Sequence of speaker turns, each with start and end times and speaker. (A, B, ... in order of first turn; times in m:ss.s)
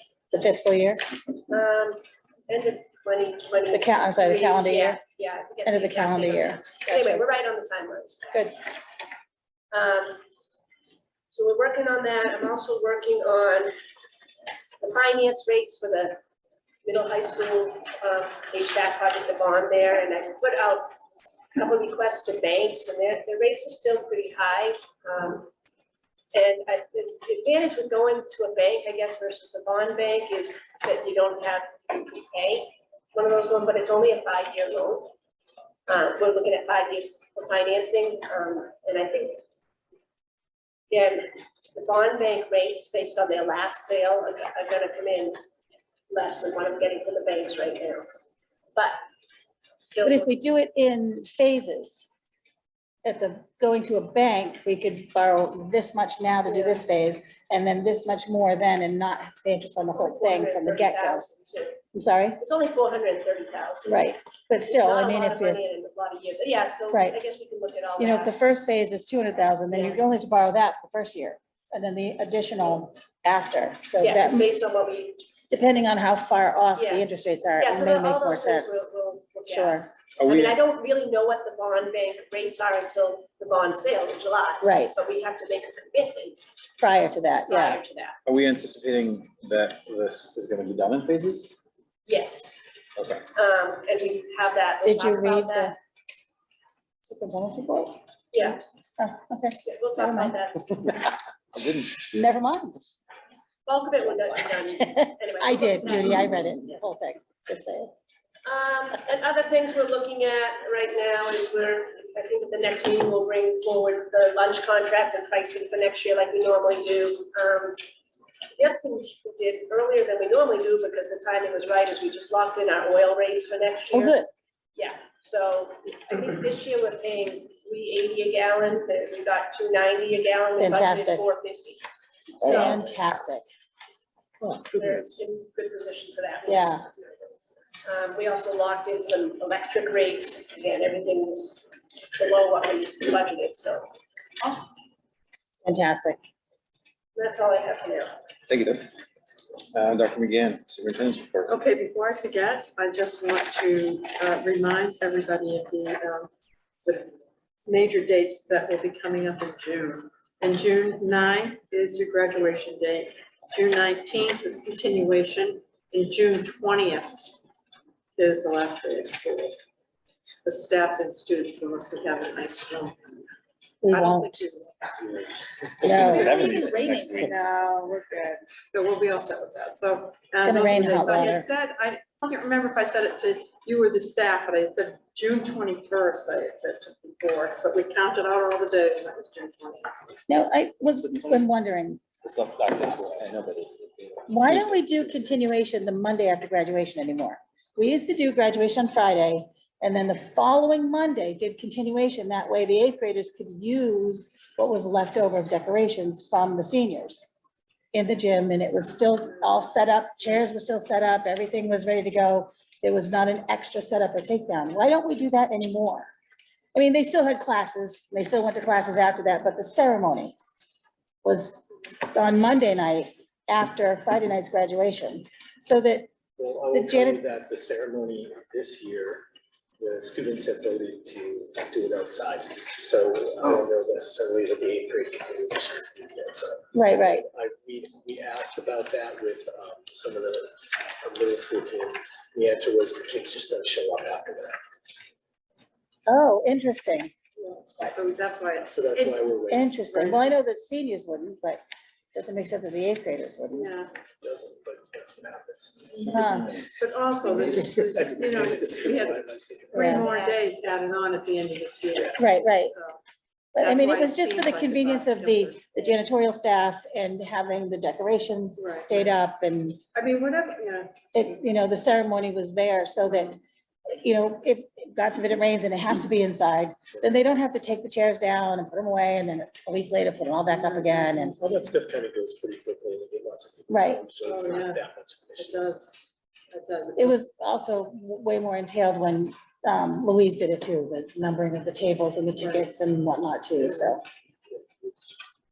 0:00.3-0:01.0 A
0:01.5-0:08.4 B
0:03.7-0:05.0 A
0:05.6-0:07.2 A
0:09.7-0:10.2 B
0:11.3-0:13.7 B
0:14.8-0:16.2 B
0:16.8-0:21.0 B
0:21.6-0:25.5 B
0:26.3-0:35.1 B
0:35.9-0:39.4 B
0:40.9-0:45.4 B
0:46.1-0:48.1 B
0:49.8-0:50.3 B
0:50.0-0:52.1 A
0:53.0-1:01.2 A
0:56.5-0:56.8 B
0:59.9-1:01.8 B
1:01.9-1:02.4 A
1:02.4-1:08.4 B
1:03.9-1:05.6 A
1:06.9-1:07.2 A
1:08.0-1:14.5 A
1:09.7-1:10.0 B
1:14.0-1:15.2 B
1:15.5-1:18.9 A
1:16.8-1:17.1 B
1:17.6-1:26.4 B
1:19.5-1:19.9 A
1:20.2-1:20.6 C
1:24.6-1:24.9 A
1:26.8-1:27.8 A
1:27.5-1:28.2 B
1:28.3-1:31.5 C
1:32.1-1:32.6 B
1:33.0-1:33.2 C
1:33.3-1:35.7 B
1:34.8-1:35.8 A
1:37.0-1:38.0 A
1:38.3-1:38.6 B
1:39.0-1:40.4 A
1:39.6-1:40.7 B
1:41.6-1:42.0 C
1:42.0-1:42.8 A
1:43.7-1:46.2 B
1:44.6-1:47.9 A
1:48.4-1:57.8 B
1:58.6-2:04.2 B
2:03.9-2:04.3 A
2:04.8-2:11.8 B
2:10.6-2:11.2 A
2:12.4-2:12.8 B
2:12.4-2:13.4 A
2:14.4-2:15.1 C
2:14.7-2:21.6 B
2:16.5-2:16.8 A
2:22.2-2:23.9 B
2:25.6-2:26.2 A
2:27.2-2:28.2 B
2:28.5-2:28.9 C
2:29.7-2:31.5 C
2:31.5-2:36.3 D
2:36.8-2:37.1 D
2:37.7-2:47.4 D
2:48.2-2:49.6 D
2:50.4-2:53.0 D
2:53.8-2:54.4 A
2:53.9-2:54.9 D
2:55.8-2:57.3 C
2:55.8-2:57.1 A
2:55.8-3:10.2 D
3:00.4-3:01.5 A
3:10.3-3:12.0 A
3:12.2-3:15.4 C
3:14.3-3:27.3 A
3:27.9-3:36.1 A
3:36.7-3:40.4 A
3:41.2-3:46.1 A
3:46.4-3:49.3 E
3:46.7-3:47.2 A
3:49.8-4:04.6 E
3:56.8-3:57.2 A
4:06.1-4:07.1 A
4:07.4-4:09.2 D
4:08.6-4:09.7 E
4:09.5-4:11.6 A
4:09.8-4:10.3 D
4:12.1-4:13.7 A
4:13.5-4:13.9 D
4:14.2-4:16.1 E
4:16.0-4:16.6 A
4:16.8-4:23.0 D
4:17.2-4:20.0 E
4:19.7-4:20.1 A
4:20.0-4:20.5 B
4:22.2-4:22.8 A
4:23.6-4:29.8 A
4:23.6-4:25.6 D
4:28.6-4:29.2 D
4:29.9-4:31.3 D
4:31.1-4:41.4 A
4:33.1-4:33.4 D
4:40.5-4:41.3 D
4:41.4-4:45.6 E
4:43.7-4:44.0 A
4:44.2-4:44.8 D
4:45.4-4:45.9 D
4:46.5-4:47.2 D
4:47.0-4:54.0 A